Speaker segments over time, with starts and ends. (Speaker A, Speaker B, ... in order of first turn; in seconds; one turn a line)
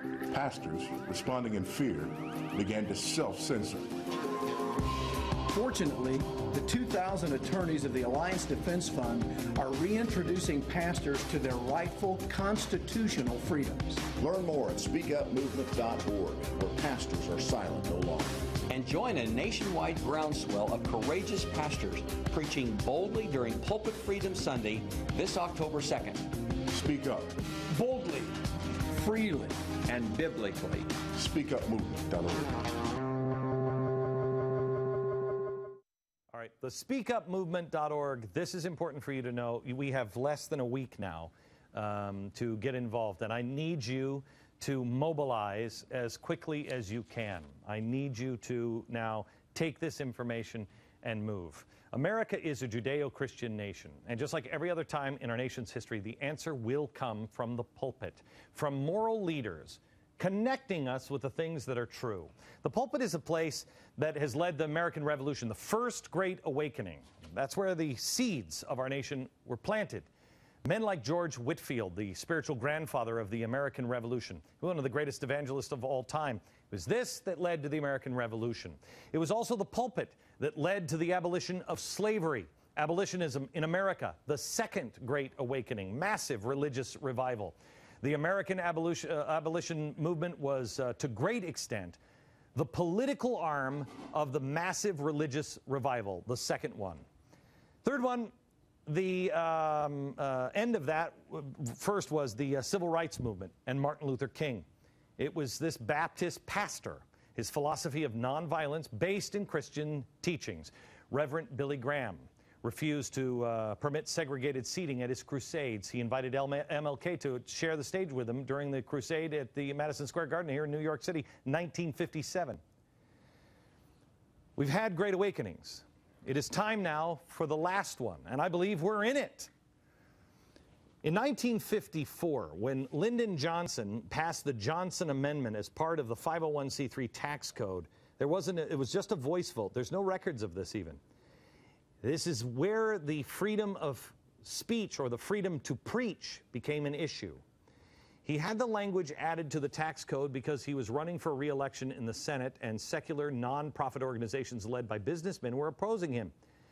Speaker A: 0.3-3.9
Speaker B: 5.5-14.1
Speaker C: 14.2-18.4
Speaker D: 18.7-26.3
Speaker A: 26.7-27.3
Speaker B: 27.7-28.3
Speaker B: 28.9-29.7
Speaker D: 29.8-30.9
Speaker A: 31.1-32.5
Speaker E: 36.3-70.1
Speaker E: 70.6-92.0
Speaker E: 92.5-97.0
Speaker E: 97.8-98.3
Speaker E: 98.8-104.7
Speaker E: 105.2-122.6
Speaker E: 124.6-129.5
Speaker E: 131.0-141.0
Speaker E: 142.0-147.4
Speaker E: 148.2-156.3